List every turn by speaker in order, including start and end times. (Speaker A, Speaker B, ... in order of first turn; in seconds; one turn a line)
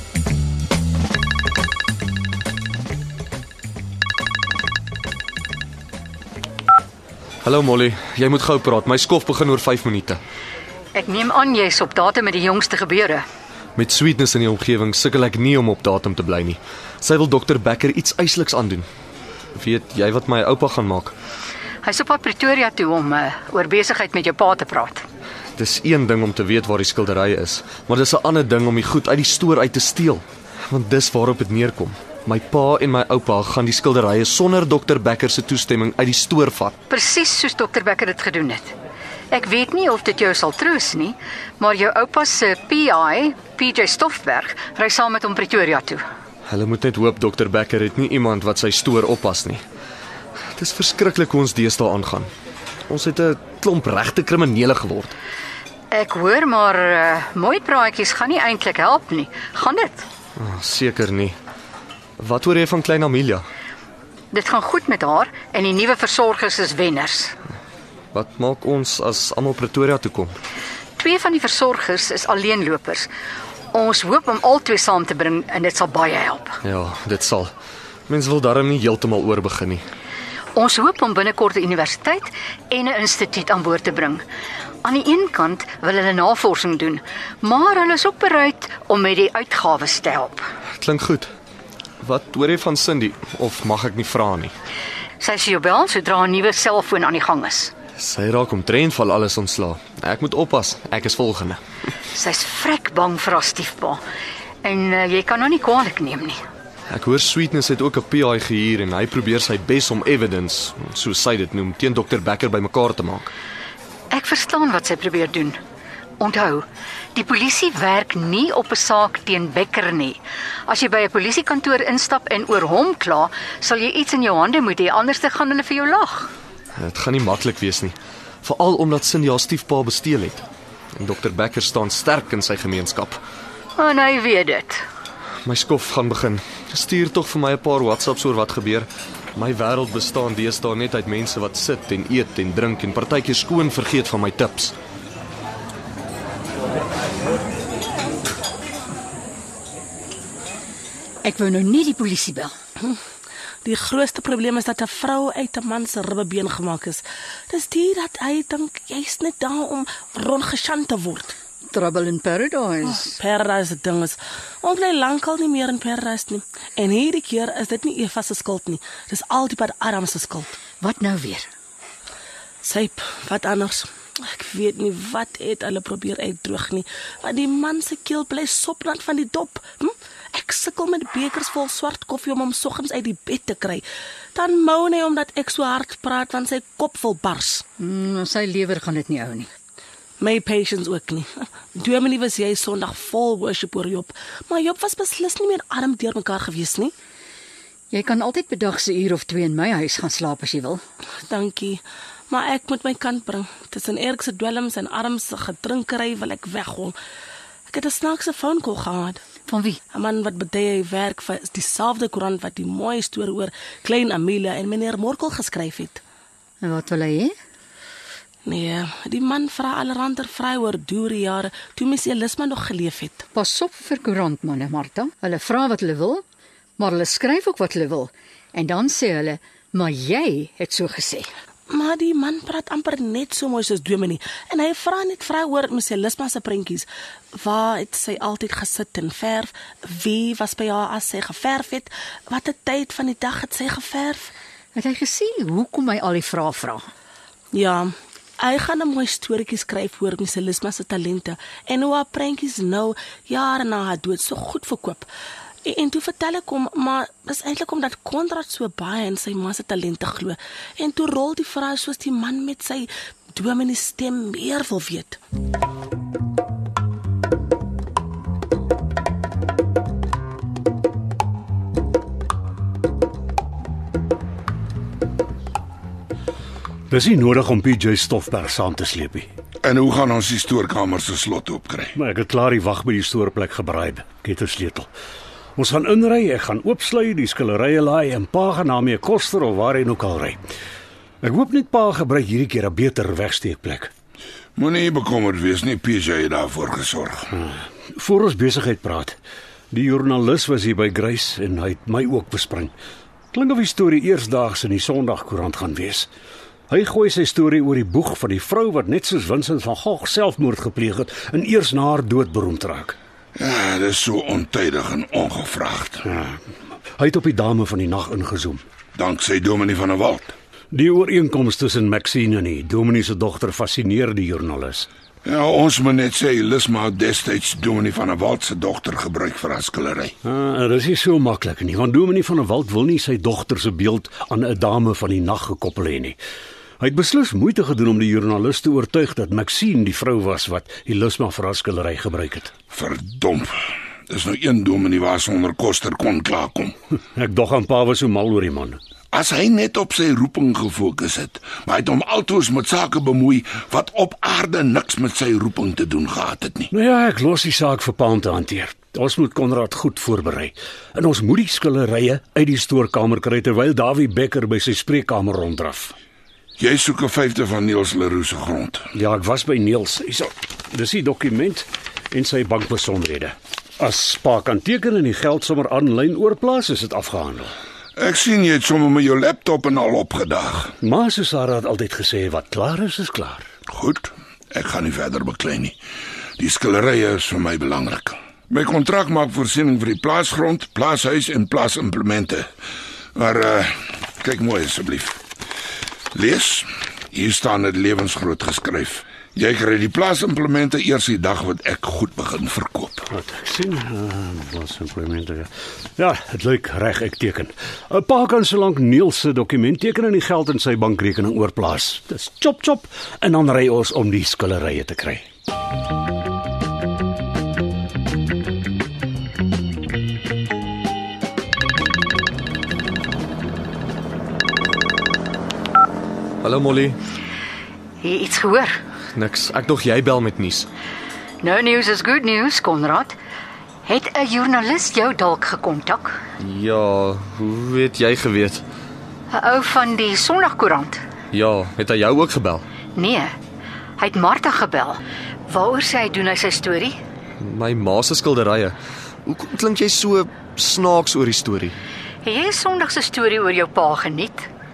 Speaker A: 7.4-10.2
Speaker B: 10.9-13.2
Speaker A: 13.8-18.9
Speaker A: 19.6-21.1
Speaker B: 21.8-25.0
Speaker A: 25.6-36.7
Speaker B: 36.9-38.7
Speaker B: 39.3-46.0
Speaker A: 46.5-49.6
Speaker A: 50.5-52.3
Speaker A: 52.9-55.1
Speaker B: 55.9-60.1
Speaker A: 60.4-61.4
Speaker A: 62.2-63.5
Speaker B: 64.3-67.3
Speaker A: 68.1-70.4
Speaker B: 71.0-73.1
Speaker B: 73.7-76.6
Speaker A: 76.6-77.5
Speaker A: 78.1-79.8
Speaker B: 80.5-84.2
Speaker B: 84.8-90.5
Speaker A: 90.8-91.3
Speaker A: 92.0-94.5
Speaker B: 95.2-97.7
Speaker A: 98.0-101.6
Speaker B: 102.1-104.0
Speaker B: 104.6-106.4
Speaker A: 106.9-113.3
Speaker B: 114.1-115.6
Speaker B: 116.2-126.3
Speaker A: 126.8-130.4
Speaker A: 130.9-133.2
Speaker B: 133.8-134.8
Speaker A: 135.4-144.7
Speaker B: 151.2-152.5
Speaker C: 153.6-161.3
Speaker B: 161.7-163.1
Speaker C: 162.9-170.5
Speaker B: 170.8-171.5
Speaker C: 172.6-187.6
Speaker B: 187.8-189.5
Speaker C: 190.2-196.9
Speaker B: 197.9-200.8
Speaker C: 201.3-206.9
Speaker C: 207.7-209.2
Speaker B: 209.5-209.8
Speaker C: 209.9-216.0
Speaker B: 216.6-217.3
Speaker C: 218.4-223.2
Speaker B: 223.3-226.2
Speaker B: 226.8-231.3
Speaker C: 231.7-244.3
Speaker B: 244.7-246.9
Speaker C: 247.5-255.1
Speaker C: 255.6-265.2
Speaker D: 276.9-279.3
Speaker E: 279.6-281.9
Speaker D: 281.9-284.9
Speaker D: 285.6-290.4
Speaker D: 291.2-293.9
Speaker E: 294.6-297.3
Speaker D: 297.3-299.2
Speaker D: 299.7-302.7
Speaker D: 303.3-306.1
Speaker D: 306.7-312.9
Speaker E: 313.4-316.1
Speaker D: 316.0-316.4
Speaker D: 317.0-318.6
Speaker E: 318.9-320.3
Speaker D: 320.7-324.9
Speaker E: 325.2-330.1
Speaker D: 330.2-336.2
Speaker D: 336.8-342.5
Speaker E: 342.7-343.5
Speaker E: 344.1-346.7
Speaker D: 347.1-348.8
Speaker E: 349.1-356.7
Speaker D: 356.7-365.9
Speaker E: 366.6-368.9
Speaker D: 368.9-377.5
Speaker E: 377.9-380.7
Speaker D: 380.8-383.4
Speaker E: 383.7-385.8
Speaker E: 386.4-392.5
Speaker E: 393.1-395.2
Speaker E: 396.1-403.1
Speaker D: 403.1-415.2
Speaker A: 426.4-427.0
Speaker B: 428.0-428.8
Speaker A: 429.1-430.7
Speaker B: 431.4-433.1
Speaker B: 433.8-436.2
Speaker A: 436.4-438.6
Speaker B: 439.3-441.0
Speaker A: 441.3-442.6
Speaker B: 442.9-443.3
Speaker B: 444.0-447.0
Speaker A: 447.4-451.8
Speaker B: 452.2-454.5